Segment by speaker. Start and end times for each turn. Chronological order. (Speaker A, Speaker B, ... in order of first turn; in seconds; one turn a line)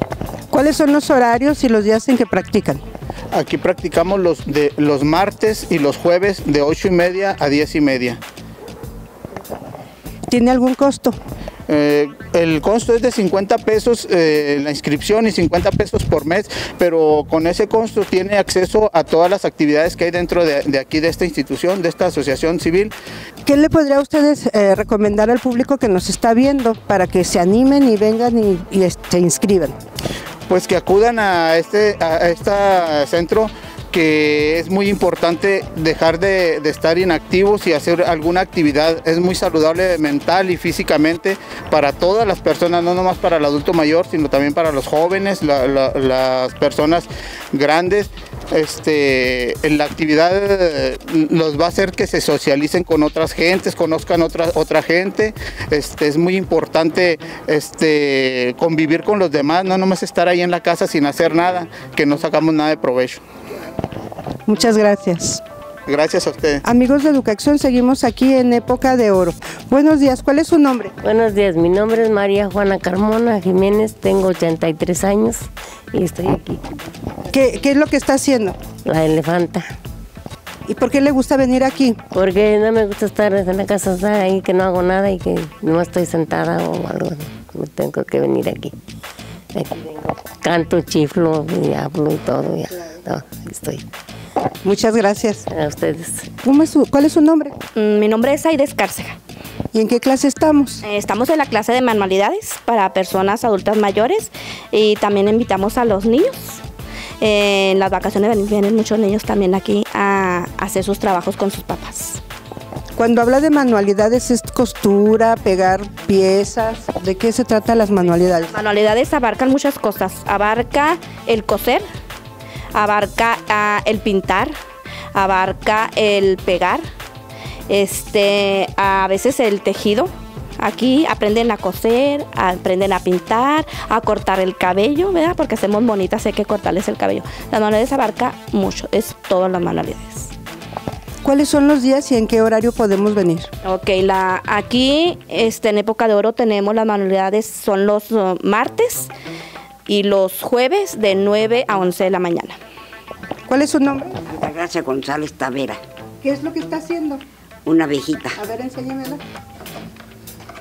Speaker A: 0.5-2.8
Speaker B: 3.3-8.2
Speaker A: 10.3-11.2
Speaker B: 11.7-22.9
Speaker A: 23.4-29.8
Speaker B: 30.5-63.2
Speaker A: 64.5-65.4
Speaker B: 65.9-66.6
Speaker A: 66.6-70.9
Speaker C: 71.0-76.6
Speaker A: 77.3-78.6
Speaker C: 78.8-79.7
Speaker A: 80.7-82.0
Speaker C: 82.1-88.8
Speaker C: 89.5-93.8
Speaker A: 94.6-95.5
Speaker C: 95.5-96.3
Speaker A: 96.4-97.5
Speaker D: 97.8-99.2
Speaker A: 99.7-100.8
Speaker D: 100.8-106.6
Speaker D: 107.2-112.2
Speaker A: 113.0-118.5
Speaker D: 118.5-121.8
Speaker D: 122.7-124.5
Speaker D: 125.1-126.9
Speaker D: 127.7-140.3
Speaker A: 141.2-143.5
Speaker D: 143.6-149.1
Speaker D: 149.9-152.6
Speaker A: 153.5-154.2
Speaker E: 154.2-155.8
Speaker A: 156.2-157.2
Speaker E: 157.6-158.4
Speaker A: 158.4-159.2